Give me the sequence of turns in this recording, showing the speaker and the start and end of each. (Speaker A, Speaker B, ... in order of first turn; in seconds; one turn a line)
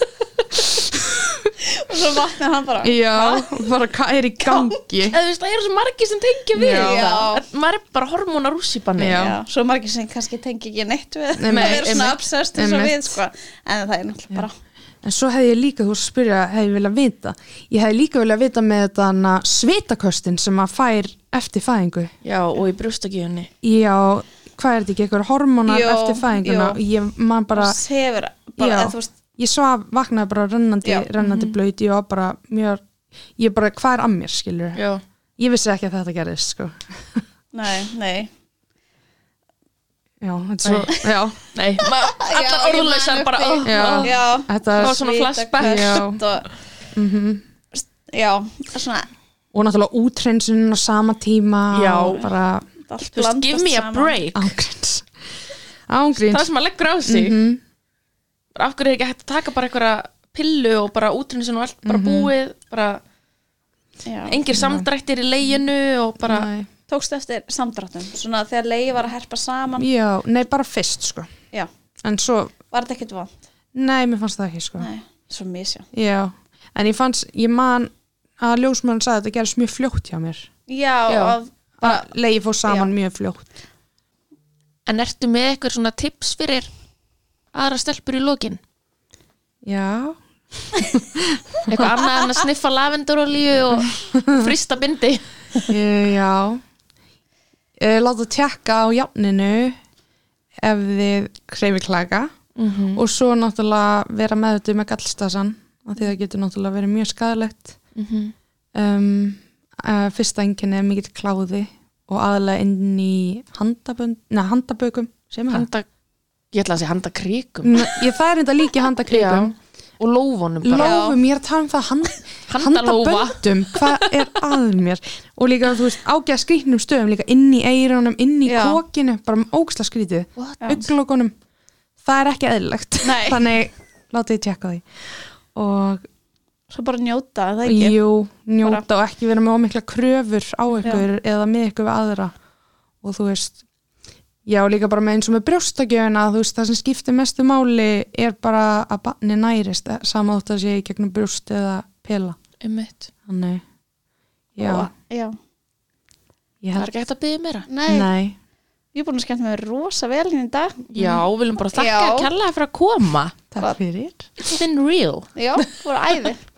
Speaker A: 0.5-1.5
Speaker B: 1.6-3.6
Speaker A: 2.8-5.2
Speaker B: 4.4-4.7
Speaker C: 5.1-9.3
Speaker A: 6.5-7.1
Speaker B: 6.6-7.5
Speaker A: 9.0-9.4
Speaker B: 9.1-14.5
Speaker A: 11.4-13.1
Speaker C: 11.5-12.2
Speaker A: 15.0-22.1
Speaker C: 22.2-23.5
Speaker A: 23.6-27.8
Speaker B: 25.6-26.8
Speaker B: 27.5-29.1
Speaker A: 28.6-32.8
Speaker C: 31.2-31.6
Speaker A: 33.4-34.8
Speaker C: 34.8-35.0
Speaker A: 35.4-37.2
Speaker B: 37.5-38.3
Speaker A: 40.2-41.4
Speaker C: 41.5-44.2
Speaker B: 41.8-46.5
Speaker A: 43.6-45.0
Speaker C: 44.7-46.0
Speaker A: 45.6-46.2
Speaker A: 46.9-47.4
Speaker B: 47.7-49.1
Speaker A: 49.5-52.6
Speaker C: 51.7-52.3
Speaker B: 52.9-54.2
Speaker C: 53.1-54.5
Speaker A: 54.3-55.1
Speaker A: 55.9-56.5
Speaker C: 56.2-57.4
Speaker A: 57.0-57.6
Speaker C: 58.5-63.0
Speaker A: 61.8-62.3
Speaker B: 64.0-64.4
Speaker C: 64.3-66.5
Speaker A: 64.5-64.9
Speaker A: 66.2-66.7
Speaker B: 66.9-69.9
Speaker A: 69.8-71.3
Speaker A: 72.0-72.5
Speaker B: 72.7-73.4
Speaker A: 73.7-74.9
Speaker B: 74.8-75.9
Speaker A: 75.9-80.5
Speaker B: 80.7-82.1
Speaker C: 81.1-81.4
Speaker A: 81.8-83.5
Speaker B: 82.6-82.9
Speaker C: 84.9-86.7
Speaker C: 87.5-88.6
Speaker A: 89.6-91.9
Speaker C: 91.7-95.7
Speaker A: 94.1-94.5
Speaker A: 95.7-96.6
Speaker A: 97.8-99.8
Speaker A: 100.6-102.3
Speaker C: 102.5-103.0
Speaker A: 102.9-107.8
Speaker C: 107.9-108.3
Speaker A: 108.7-115.7
Speaker C: 115.5-115.8
Speaker C: 116.5-118.1
Speaker A: 117.6-119.5
Speaker C: 119.1-121.0
Speaker A: 120.6-131.3
Speaker B: 120.8-121.2
Speaker C: 122.5-124.3
Speaker B: 128.4-128.8
Speaker C: 130.4-130.8
Speaker A: 132.0-136.0
Speaker B: 133.0-133.4
Speaker B: 136.7-138.0
Speaker A: 137.6-142.3
Speaker A: 143.0-143.6
Speaker A: 144.4-152.4
Speaker C: 152.6-153.1
Speaker A: 153.3-153.6
Speaker A: 154.5-154.9
Speaker B: 154.6-155.3
Speaker A: 156.6-156.9
Speaker C: 156.8-157.7
Speaker B: 157.7-158.1
Speaker A: 157.9-158.4
Speaker B: 158.9-160.8
Speaker C: 160.9-163.4
Speaker A: 160.9-161.3
Speaker B: 161.7-162.3
Speaker A: 163.5-164.5
Speaker C: 164.4-165.7
Speaker B: 165.3-166.4